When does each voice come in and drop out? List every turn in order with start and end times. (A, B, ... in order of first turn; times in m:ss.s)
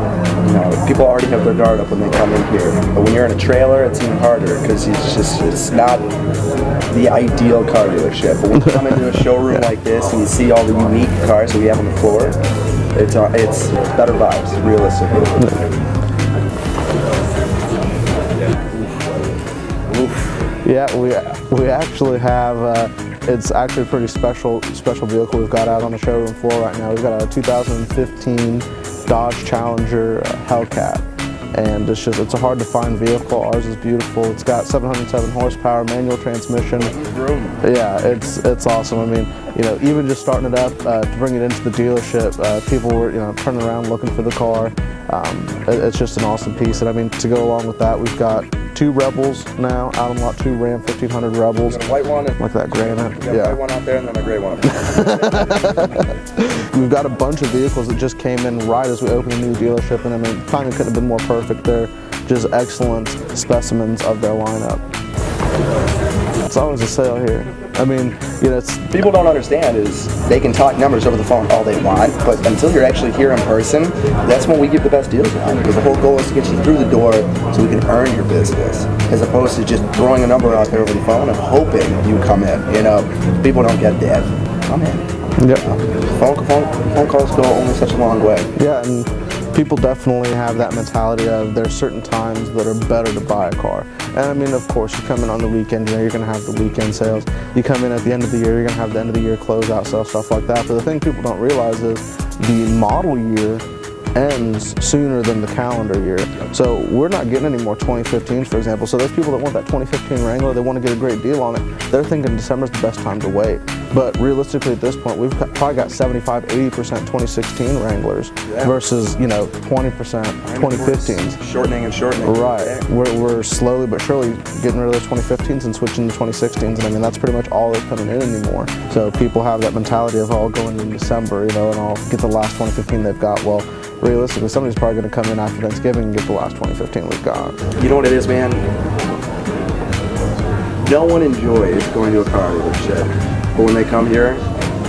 0:00.4-0:06.1 A
0:06.9-0:12.4 A
0:12.9-0:15.5 A
0:20.6-0:37.0 B
0:36.8-0:37.6 A
0:37.6-0:53.6 B
0:51.6-0:55.3 A
0:54.7-1:04.9 B
1:06.5-1:09.0 B
1:08.9-1:25.1 A
1:25.4-1:25.7 B
1:25.6-1:28.5 A
1:28.6-2:01.4 B
1:58.5-1:58.7 A
2:00.4-2:02.8 A
2:02.2-2:17.6 B
2:17.8-2:18.7 A
2:20.9-2:24.4 A